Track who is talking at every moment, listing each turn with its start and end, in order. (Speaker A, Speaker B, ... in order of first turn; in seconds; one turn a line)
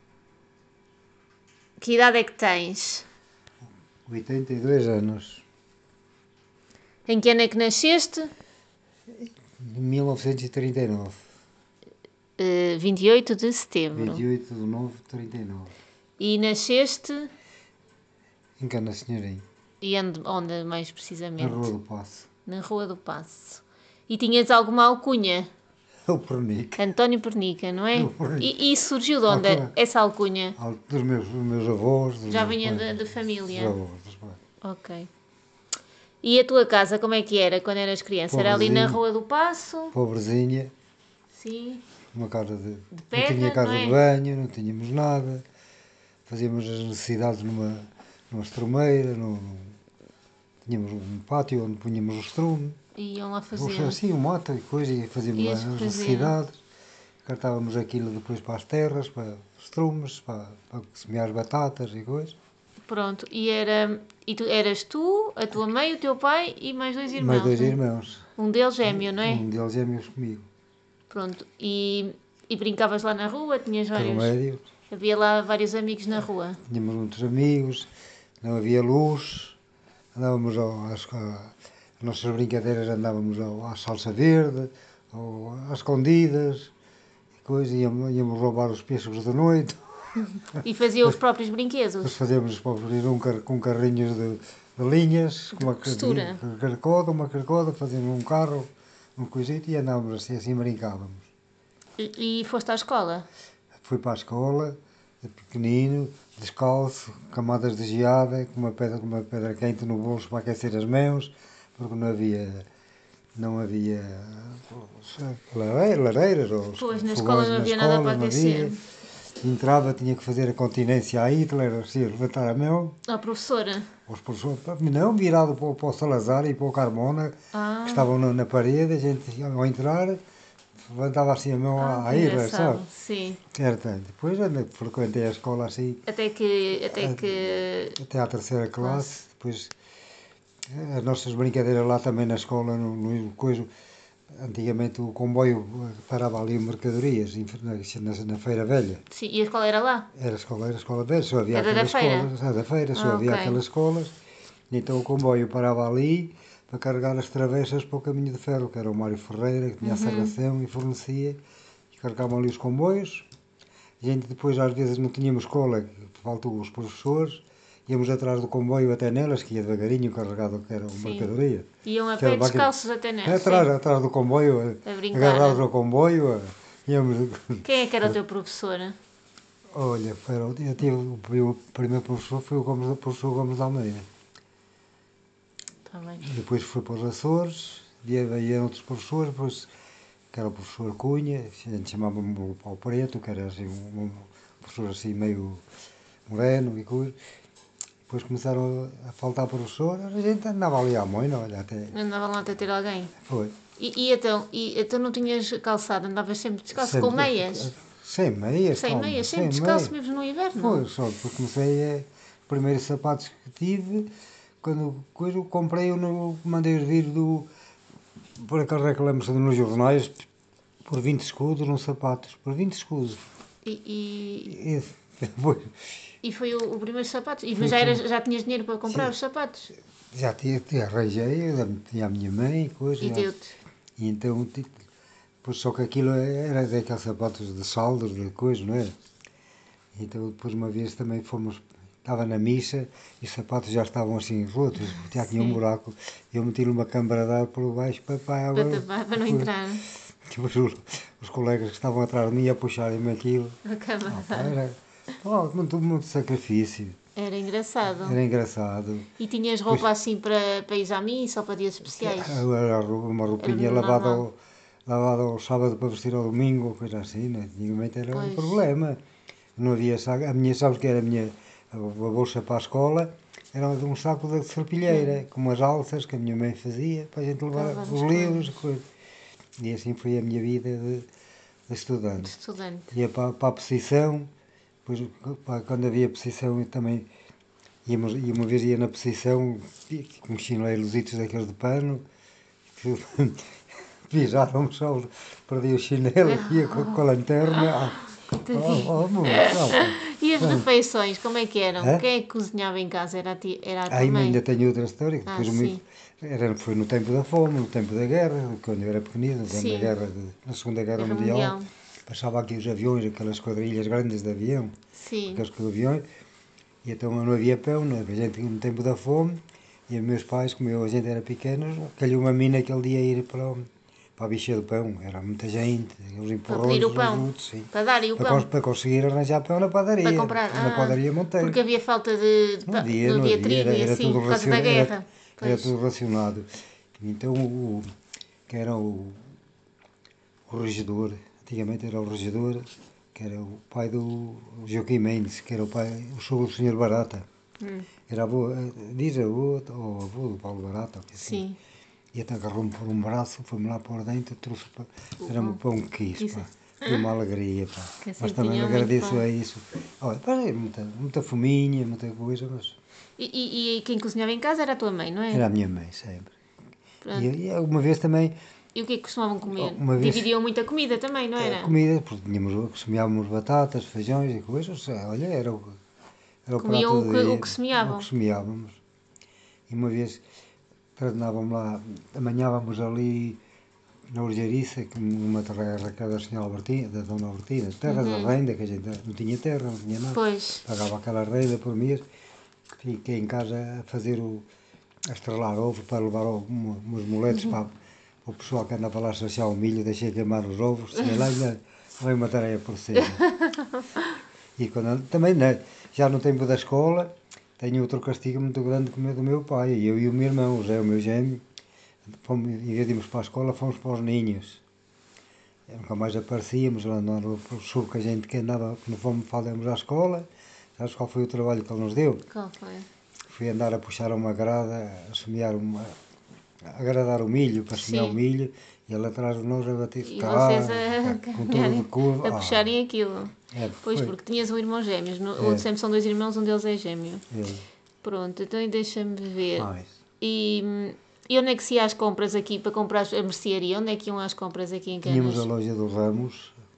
Speaker A: 1.8-3.0
Speaker B: 4.1-5.4
Speaker A: 7.1-8.3
Speaker B: 9.1-11.2
Speaker A: 12.4-14.2
Speaker B: 13.9-15.8
Speaker A: 16.2-17.3
Speaker B: 18.6-19.4
Speaker A: 19.8-21.7
Speaker B: 21.4-22.3
Speaker A: 22.5-25.5
Speaker B: 26.1-26.9
Speaker A: 26.8-30.6
Speaker B: 27.9-28.6
Speaker B: 29.3-29.7
Speaker B: 30.6-34.4
Speaker A: 32.3-33.8
Speaker A: 34.6-35.1
Speaker A: 36.2-40.0
Speaker B: 38.3-39.0
Speaker B: 39.9-40.7
Speaker A: 41.3-41.8
Speaker B: 42.1-45.4
Speaker A: 42.9-44.0
Speaker B: 46.3-49.8
Speaker B: 50.6-52.8
Speaker A: 53.0-54.0
Speaker B: 53.5-56.6
Speaker A: 55.4-56.4
Speaker B: 57.2-62.4
Speaker A: 62.9-67.8
Speaker B: 67.2-68.3
Speaker A: 68.4-69.5
Speaker B: 68.8-70.5
Speaker A: 71.1-74.3
Speaker B: 73.9-74.7
Speaker A: 74.9-76.6
Speaker B: 76.7-77.9
Speaker B: 78.4-79.6
Speaker B: 80.2-86.7
Speaker B: 87.4-89.8
Speaker B: 90.6-91.1
Speaker A: 90.6-92.2
Speaker B: 92.0-101.3
Speaker A: 95.5-96.4
Speaker A: 102.0-103.3
Speaker B: 103.8-112.7
Speaker B: 113.4-118.8
Speaker A: 116.8-118.8
Speaker B: 119.4-123.0
Speaker A: 123.1-123.9
Speaker B: 124.1-130.2
Speaker A: 127.5-128.1
Speaker B: 130.8-132.9
Speaker A: 131.8-133.4
Speaker B: 133.5-136.0
Speaker A: 136.1-138.0
Speaker B: 136.9-137.4
Speaker B: 138.0-139.7
Speaker A: 138.8-139.1
Speaker B: 140.7-143.7
Speaker B: 144.3-149.0
Speaker A: 149.1-150.1
Speaker B: 150.1-154.2
Speaker A: 151.5-152.3
Speaker A: 152.9-153.6
Speaker B: 154.7-161.4
Speaker A: 159.8-160.3
Speaker B: 161.9-163.3
Speaker B: 164.0-172.7
Speaker A: 170.9-171.3
Speaker A: 171.8-173.7
Speaker B: 173.2-178.2
Speaker A: 174.8-175.6
Speaker A: 177.7-179.0
Speaker B: 179.7-184.1
Speaker A: 185.9-186.3
Speaker B: 186.2-189.7
Speaker B: 190.3-195.6
Speaker B: 196.3-197.2
Speaker B: 198.1-201.9
Speaker A: 201.9-203.1
Speaker B: 203.2-203.6
Speaker A: 203.8-207.7
Speaker B: 206.7-209.9
Speaker A: 208.7-210.8
Speaker B: 210.6-214.1
Speaker B: 214.6-217.5
Speaker B: 218.4-220.3
Speaker B: 220.8-223.2
Speaker A: 223.7-224.6
Speaker B: 224.5-225.8
Speaker A: 226.2-229.7
Speaker B: 227.6-228.0
Speaker B: 228.9-229.1
Speaker B: 230.1-233.3
Speaker A: 233.0-233.5
Speaker B: 234.0-234.7
Speaker B: 235.4-238.9
Speaker B: 239.9-249.6
Speaker A: 248.6-249.8
Speaker B: 250.2-257.0
Speaker A: 253.7-254.6
Speaker A: 257.2-258.2
Speaker B: 258.0-259.1
Speaker A: 259.2-262.4
Speaker B: 261.9-269.0
Speaker A: 263.4-264.2
Speaker A: 268.1-268.6
Speaker B: 269.6-278.9
Speaker A: 274.9-275.2
Speaker A: 277.6-278.6
Speaker B: 279.6-281.1
Speaker B: 281.7-282.3
Speaker A: 282.2-282.9
Speaker B: 282.9-284.3
Speaker B: 284.9-287.1
Speaker B: 287.9-292.0
Speaker B: 292.7-293.5
Speaker B: 294.1-300.7
Speaker A: 296.2-297.0
Speaker A: 298.3-304.4
Speaker B: 301.8-302.1
Speaker B: 303.9-314.8
Speaker A: 305.3-305.8
Speaker A: 309.5-310.0
Speaker A: 311.0-311.7
Speaker A: 315.0-315.4
Speaker B: 315.3-316.1
Speaker B: 316.8-331.6
Speaker A: 326.5-328.5
Speaker A: 330.0-335.7
Speaker B: 332.7-337.9
Speaker B: 338.5-339.2
Speaker B: 340.5-347.2
Speaker A: 347.6-347.9
Speaker B: 348.1-351.5
Speaker A: 351.2-351.6
Speaker B: 352.1-362.8
Speaker A: 355.2-355.6
Speaker A: 356.2-356.5
Speaker A: 358.0-359.2
Speaker A: 363.2-365.5
Speaker B: 365.3-366.3
Speaker A: 367.0-367.3
Speaker B: 367.1-368.4
Speaker A: 368.8-371.8
Speaker B: 369.5-370.3
Speaker B: 371.4-375.8
Speaker B: 376.5-378.8
Speaker A: 376.6-378.1
Speaker B: 379.7-380.2
Speaker B: 381.0-383.4
Speaker B: 384.1-392.0
Speaker A: 387.9-388.4
Speaker A: 390.1-390.6
Speaker B: 392.8-394.5
Speaker B: 395.1-397.7
Speaker B: 398.2-403.2
Speaker B: 404.6-411.4
Speaker B: 412.1-414.6
Speaker B: 415.7-422.3
Speaker A: 422.3-422.9
Speaker B: 423.3-426.0
Speaker B: 426.6-432.8
Speaker A: 427.7-428.2
Speaker A: 430.0-437.2
Speaker B: 433.5-434.2
Speaker B: 435.4-435.7
Speaker B: 437.3-437.6
Speaker A: 438.0-439.7
Speaker B: 439.6-439.9
Speaker A: 440.2-445.5
Speaker B: 445.0-446.6